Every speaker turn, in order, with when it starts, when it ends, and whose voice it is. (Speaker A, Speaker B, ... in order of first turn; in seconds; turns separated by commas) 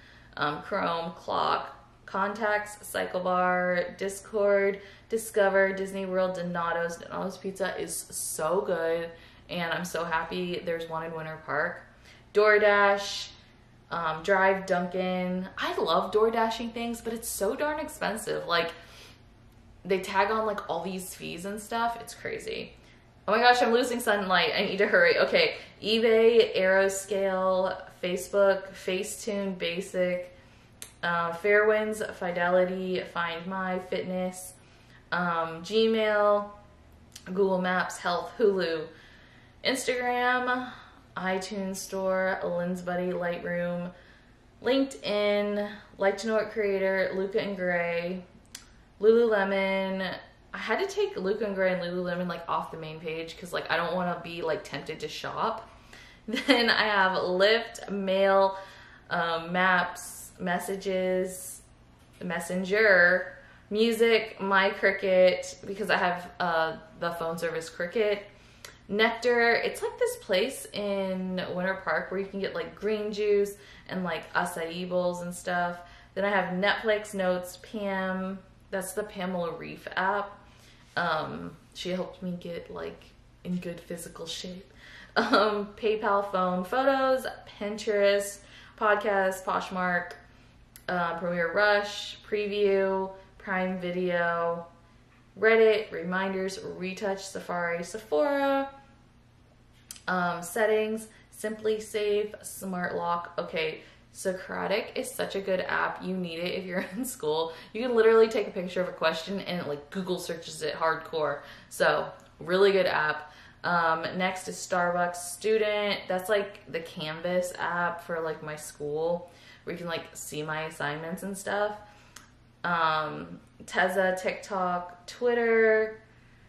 Speaker A: 0.3-13.3, Speaker A: 13.9-18.7, Speaker A: 19.8-22.7, Speaker A: 23.2-30.3, Speaker A: 31.0-34.5, Speaker A: 35.1-36.5, Speaker A: 37.3-38.9, Speaker A: 39.6-43.9, Speaker A: 44.6-48.2, Speaker A: 49.0-55.7, Speaker A: 56.3-58.5, Speaker A: 59.1-61.6, Speaker A: 62.2-68.3, Speaker A: 68.9-80.4, Speaker A: 81.0-90.2, Speaker A: 90.9-94.7, Speaker A: 95.3-98.7, Speaker A: 100.1-121.8, Speaker A: 122.6-126.0